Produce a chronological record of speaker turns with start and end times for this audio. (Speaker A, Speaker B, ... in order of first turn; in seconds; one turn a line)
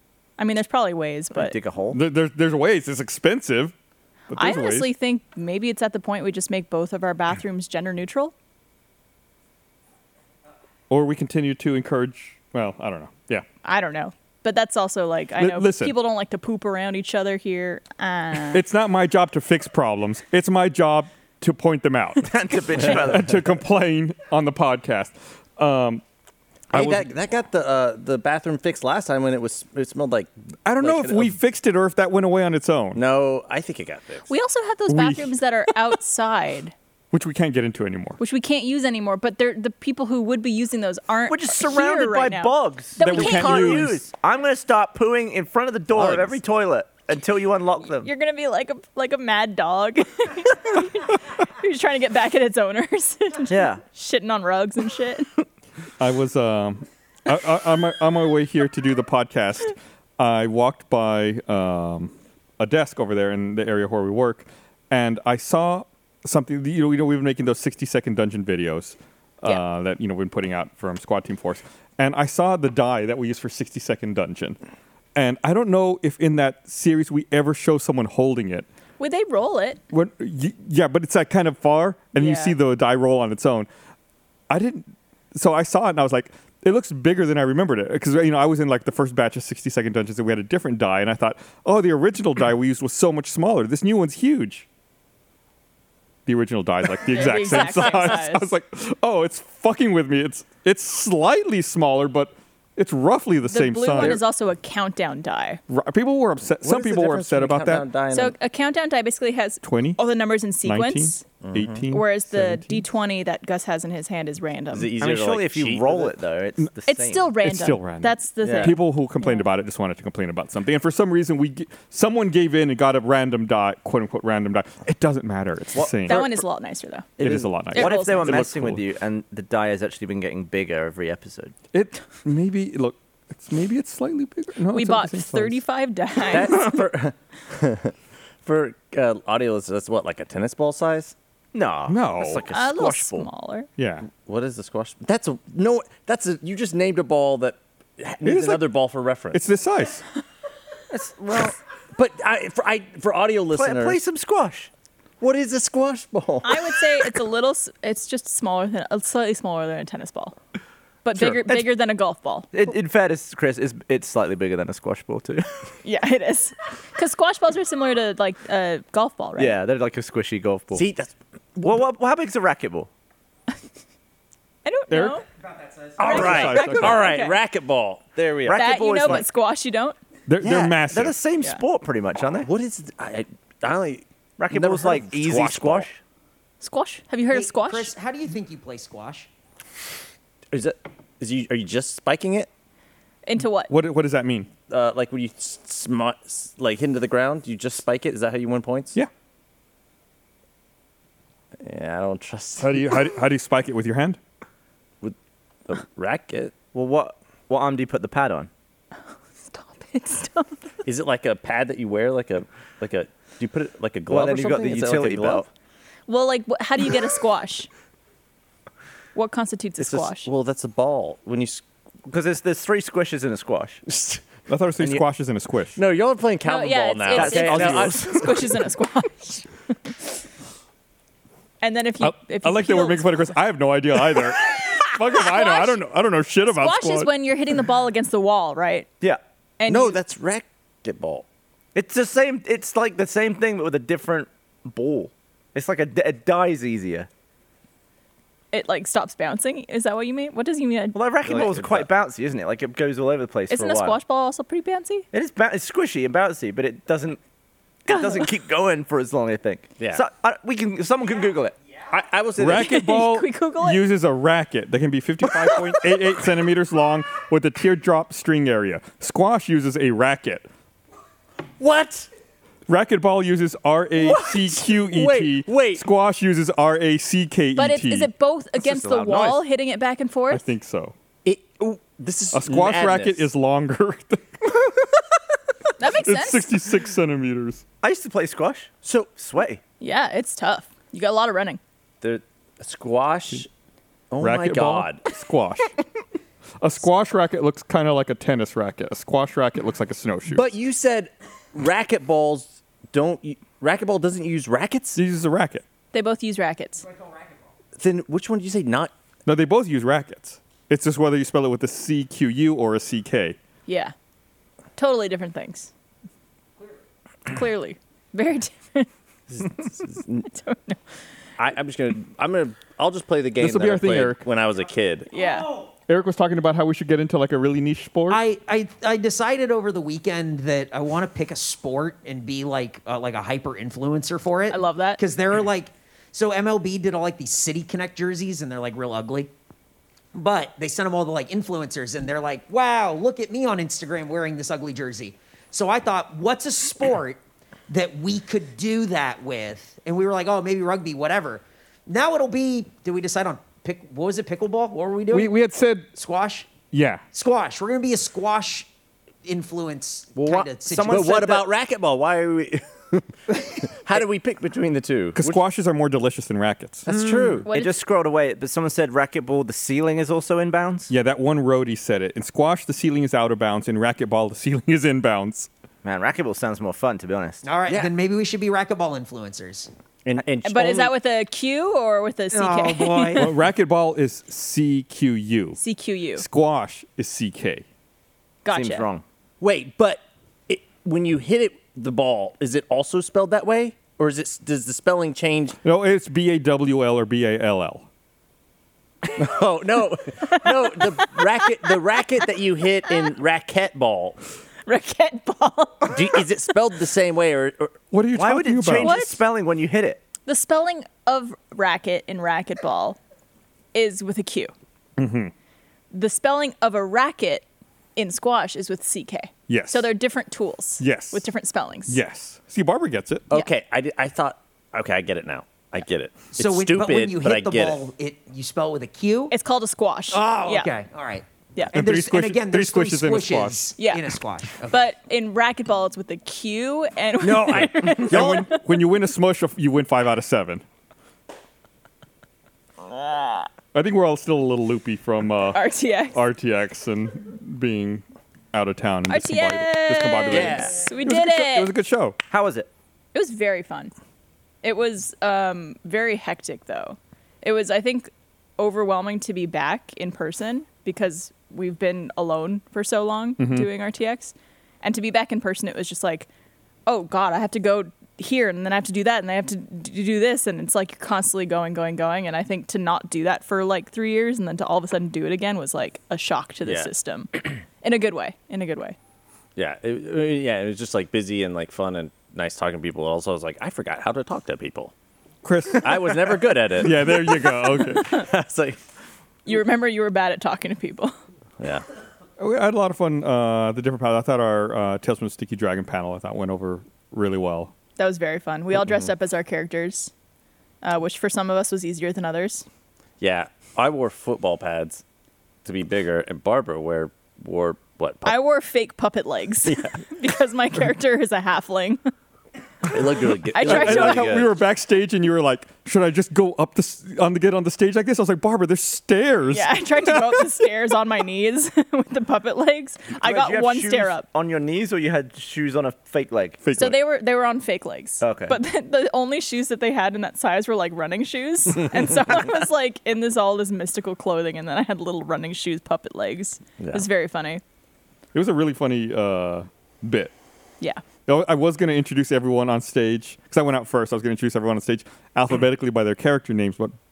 Speaker A: 0.4-1.6
Speaker B: 1.3-2.0
Speaker C: 1.9-3.7
Speaker C: 4.3-4.9
Speaker A: 4.3-8.3
Speaker C: 10.9-13.4
Speaker A: 13.6-18.6
Speaker C: 15.4-15.9
Speaker C: 18.5-26.0
Speaker B: 22.2-23.6
Speaker D: 26.7-31.3
Speaker C: 26.7-27.1
Speaker C: 30.6-33.0
Speaker D: 32.9-34.3
Speaker A: 34.3-36.7
Speaker C: 34.9-35.4
Speaker C: 37.1-38.2
Speaker A: 38.2-44.0
Speaker B: 41.3-48.1
Speaker C: 43.0-44.0
Speaker D: 45.9-46.4
Speaker A: 48.0-55.3
Speaker B: 53.5-53.8
Speaker C: 56.0-74.6
Speaker C: 75.1-78.7
Speaker A: 79.0-79.8
Speaker C: 79.9-83.7
Speaker A: 82.1-82.5
Speaker C: 84.5-94.7
Speaker C: 96.2-104.2
Speaker A: 97.1-98.5
Speaker A: 103.5-105.6
Speaker C: 105.7-107.9
Speaker D: 106.6-108.3
Speaker A: 108.1-111.2
Speaker C: 109.6-110.0
Speaker C: 110.7-112.8
Speaker D: 111.4-111.8
Speaker A: 111.9-114.9
Speaker D: 114.7-116.2
Speaker B: 115.0-117.3
Speaker A: 116.8-119.5
Speaker C: 117.4-126.4
Speaker D: 118.4-118.8
Speaker B: 125.7-126.2
Speaker A: 126.0-127.2
Speaker D: 127.2-127.5
Speaker C: 127.2-128.8
Speaker B: 127.2-131.5
Speaker A: 127.7-128.4
Speaker C: 131.7-135.6
Speaker A: 134.7-136.8
Speaker D: 136.3-141.1
Speaker B: 141.5-143.3
Speaker C: 141.9-142.4
Speaker A: 142.5-143.7
Speaker C: 143.8-144.1
Speaker D: 144.1-149.4
Speaker C: 148.2-150.0
Speaker D: 150.9-154.0
Speaker B: 153.5-154.7
Speaker D: 155.2-156.9
Speaker A: 156.4-160.3
Speaker A: 161.0-162.5
Speaker C: 161.1-161.5
Speaker B: 162.5-165.5
Speaker A: 165.8-169.6
Speaker B: 169.4-170.8
Speaker D: 170.7-171.8
Speaker B: 171.6-172.9
Speaker A: 174.6-175.2
Speaker C: 174.9-175.2
Speaker D: 176.0-179.2
Speaker C: 176.0-177.1
Speaker A: 176.0-177.4
Speaker B: 178.4-179.3
Speaker A: 178.5-180.0
Speaker C: 180.3-181.1
Speaker D: 180.4-180.8
Speaker B: 180.4-182.5
Speaker D: 182.4-185.9
Speaker B: 184.4-186.0
Speaker A: 186.6-187.9
Speaker E: 187.3-189.3
Speaker D: 190.5-192.5
Speaker A: 193.2-193.7
Speaker C: 193.7-194.5
Speaker D: 194.7-198.9
Speaker D: 201.6-202.9
Speaker C: 202.6-204.2
Speaker D: 205.7-206.5
Speaker B: 206.7-208.5
Speaker A: 209.5-210.6
Speaker D: 210.8-215.5
Speaker B: 214.1-215.4
Speaker A: 216.1-217.7
Speaker A: 219.1-220.3
Speaker D: 219.8-221.6
Speaker B: 222.1-223.8
Speaker D: 223.9-224.2
Speaker C: 224.5-225.8
Speaker D: 225.8-228.5
Speaker A: 226.4-229.5
Speaker B: 227.1-228.6
Speaker A: 231.6-233.2
Speaker C: 232.0-237.1
Speaker A: 235.1-235.8
Speaker A: 236.5-238.9
Speaker A: 239.6-240.0
Speaker D: 239.6-241.2
Speaker B: 241.7-247.1
Speaker A: 248.5-251.0
Speaker B: 250.9-254.0
Speaker D: 251.2-251.9
Speaker A: 253.5-255.1
Speaker B: 255.1-257.2
Speaker B: 257.8-261.5
Speaker A: 257.9-258.2
Speaker D: 259.8-260.0
Speaker D: 261.9-262.8
Speaker C: 262.4-270.4
Speaker A: 262.4-263.8
Speaker D: 271.6-272.1
Speaker C: 272.7-278.1
Speaker D: 273.9-275.8
Speaker A: 277.6-280.4
Speaker B: 278.6-279.4
Speaker C: 280.3-280.9
Speaker D: 281.2-283.3
Speaker C: 282.3-285.0
Speaker A: 285.8-286.5
Speaker C: 285.8-287.6
Speaker B: 287.8-289.6
Speaker D: 288.8-289.1
Speaker A: 289.8-291.6
Speaker D: 292.0-293.5
Speaker D: 294.1-295.1
Speaker C: 294.2-295.7
Speaker C: 296.6-300.4
Speaker D: 300.3-305.0
Speaker C: 304.9-305.6
Speaker A: 305.9-306.8
Speaker D: 307.8-308.9
Speaker C: 309.2-313.4
Speaker A: 313.6-313.9
Speaker A: 314.8-315.7
Speaker A: 317.2-320.8
Speaker D: 319.6-320.2
Speaker D: 321.4-325.1
Speaker C: 323.4-324.2
Speaker A: 325.1-325.5
Speaker C: 325.9-328.2
Speaker E: 328.1-339.3
Speaker A: 334.5-335.0
Speaker E: 340.1-355.4
Speaker C: 355.1-355.9
Speaker E: 355.9-356.5
Speaker C: 356.7-357.0
Speaker E: 357.1-358.7
Speaker E: 359.2-361.2
Speaker D: 360.1-365.4
Speaker B: 360.7-361.5
Speaker C: 365.1-366.9
Speaker D: 366.9-367.5
Speaker B: 366.9-370.9
Speaker A: 367.4-367.7
Speaker C: 370.9-375.5
Speaker B: 375.8-377.4
Speaker E: 377.4-379.7
Speaker D: 380.0-380.9
Speaker A: 380.4-383.2
Speaker E: 382.3-383.3
Speaker C: 383.1-385.6
Speaker A: 385.6-386.2
Speaker C: 386.1-387.6
Speaker A: 388.4-388.9
Speaker B: 388.5-389.0
Speaker D: 389.4-395.6
Speaker C: 395.6-397.9
Speaker D: 399.1-404.2
Speaker A: 400.3-401.8
Speaker A: 404.7-406.7
Speaker D: 405.9-407.8
Speaker C: 407.9-409.0
Speaker B: 408.1-410.0
Speaker A: 408.8-409.2
Speaker A: 410.2-413.0
Speaker A: 413.7-414.5
Speaker C: 415.0-415.3
Speaker A: 415.9-417.4
Speaker A: 417.9-422.0
Speaker C: 419.5-419.9
Speaker C: 420.8-421.2
Speaker C: 421.9-423.3
Speaker D: 423.3-427.8
Speaker E: 426.3-429.3
Speaker A: 429.3-430.7
Speaker E: 430.1-434.8
Speaker C: 431.7-433.7
Speaker A: 433.8-438.6
Speaker D: 437.2-438.5
Speaker C: 437.9-440.6
Speaker A: 442.8-443.5
Speaker C: 443.7-445.6
Speaker A: 445.5-446.2
Speaker C: 446.1-452.2
Speaker A: 449.1-451.8
Speaker D: 450.3-450.7
Speaker B: 452.3-452.7
Speaker A: 453.1-453.9
Speaker A: 454.6-466.3
Speaker C: 463.4-463.7
Speaker A: 466.9-478.9
Speaker D: 476.6-476.9
Speaker D: 479.6-484.9
Speaker C: 485.4-488.2
Speaker D: 485.8-488.8
Speaker A: 487.9-488.2
Speaker A: 489.4-491.1
Speaker D: 491.6-491.8
Speaker C: 492.4-497.7
Speaker A: 498.0-500.1
Speaker A: 500.8-502.6
Speaker D: 503.2-505.0
Speaker D: 505.6-508.4
Speaker A: 508.2-512.1
Speaker D: 509.6-510.0
Speaker D: 512.9-514.5
Speaker A: 513.5-514.5
Speaker C: 513.6-520.5
Speaker A: 519.5-524.2
Speaker B: 523.2-526.6
Speaker C: 526.6-527.0
Speaker A: 526.7-537.6
Speaker B: 528.2-528.6
Speaker D: 536.8-537.1
Speaker C: 538.3-540.3
Speaker C: 541.2-547.0